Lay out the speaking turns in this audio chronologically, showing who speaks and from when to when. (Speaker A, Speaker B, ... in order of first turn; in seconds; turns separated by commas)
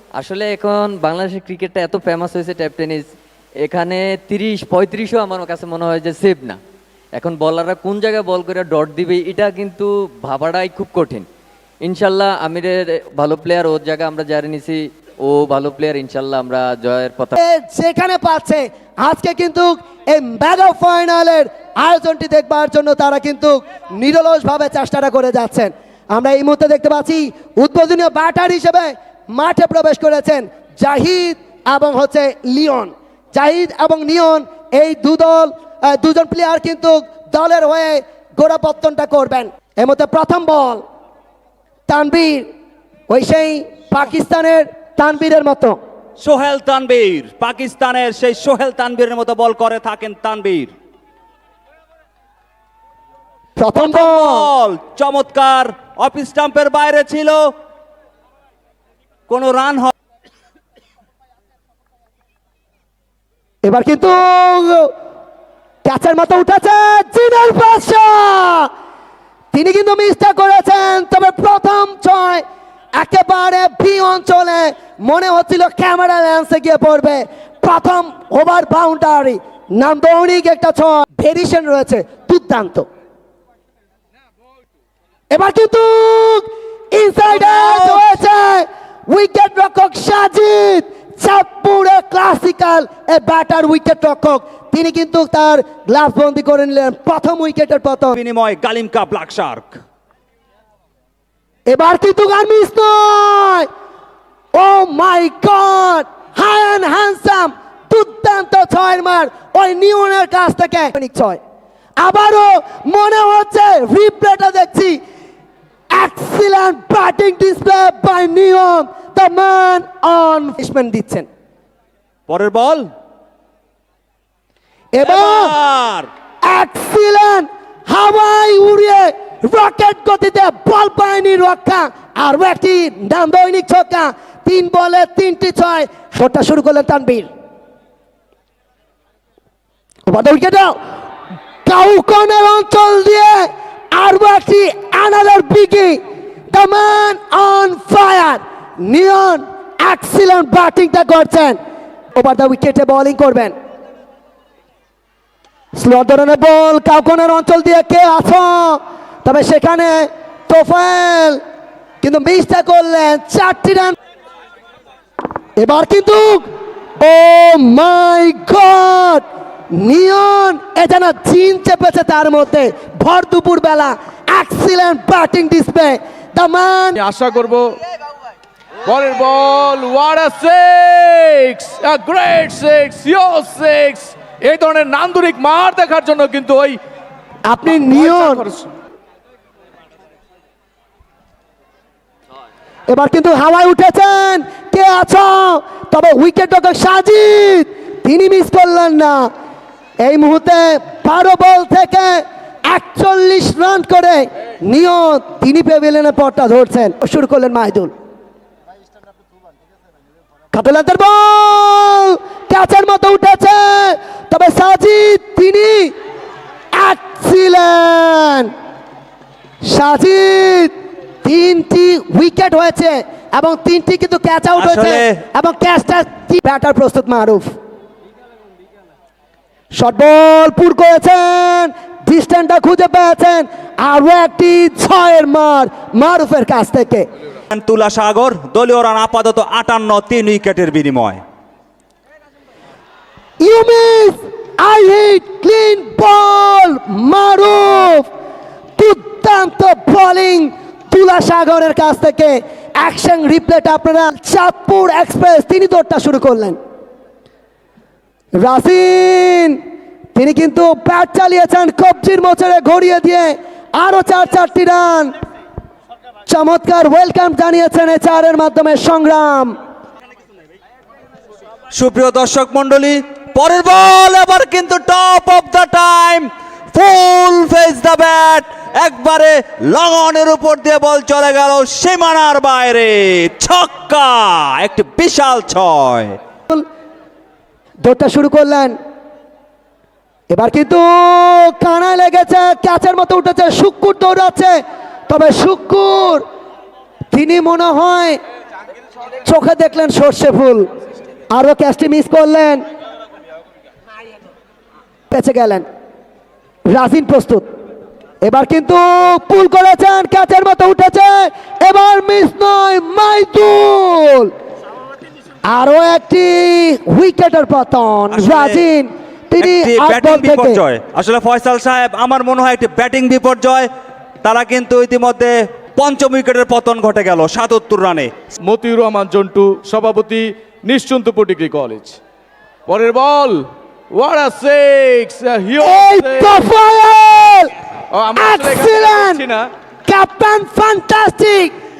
Speaker A: 0.2-3.1, Speaker A: 3.6-6.6, Speaker A: 7.1-11.3, Speaker A: 11.8-17.4, Speaker B: 17.3-40.8, Speaker B: 41.9-42.5, Speaker B: 43.1-45.8, Speaker C: 46.2-50.7, Speaker B: 53.5-54.5, Speaker C: 53.7-57.5, Speaker C: 59.3-59.9, Speaker B: 63.6-64.9, Speaker B: 65.8-68.7, Speaker B: 69.5-72.4, Speaker B: 73.0-82.9, Speaker B: 85.3-98.2, Speaker C: 98.1-99.8, Speaker B: 101.7-103.7, Speaker B: 104.5-111.4, Speaker B: 112.0-115.0, Speaker B: 115.9-121.3, Speaker C: 122.3-122.9, Speaker B: 124.9-125.5, Speaker C: 125.0-126.1, Speaker B: 126.4-137.3, Speaker B: 140.1-140.8, Speaker B: 141.7-146.0, Speaker B: 146.5-151.6, Speaker B: 152.1-153.5, Speaker B: 155.7-161.4, Speaker B: 162.0-163.9, Speaker B: 165.6-177.0, Speaker D: 176.9-177.8, Speaker D: 178.8-186.8, Speaker B: 187.5-188.4, Speaker D: 187.7-188.7, Speaker B: 192.9-199.3, Speaker B: 200.0-207.9, Speaker B: 210.5-215.9, Speaker B: 216.7-218.5, Speaker B: 219.6-220.7, Speaker B: 221.2-227.5, Speaker C: 224.6-225.2, Speaker B: 229.8-237.1, Speaker C: 237.5-241.2, Speaker B: 243.4-248.1, Speaker B: 248.8-256.6, Speaker B: 258.4-259.6, Speaker B: 260.1-265.1, Speaker B: 266.3-269.5, Speaker C: 271.7-286.1, Speaker B: 287.8-288.8, Speaker B: 290.3-296.2, Speaker B: 297.1-298.2, Speaker B: 299.2-300.7, Speaker B: 301.3-302.6, Speaker B: 305.1-305.6, Speaker B: 306.7-307.5, Speaker B: 308.2-314.3, Speaker B: 315.5-320.6, Speaker C: 318.1-318.6, Speaker C: 319.4-323.7, Speaker C: 324.2-328.1, Speaker D: 328.4-332.0, Speaker D: 332.7-336.5, Speaker B: 335.6-337.5, Speaker D: 337.9-339.5, Speaker B: 338.1-339.2, Speaker B: 339.9-341.5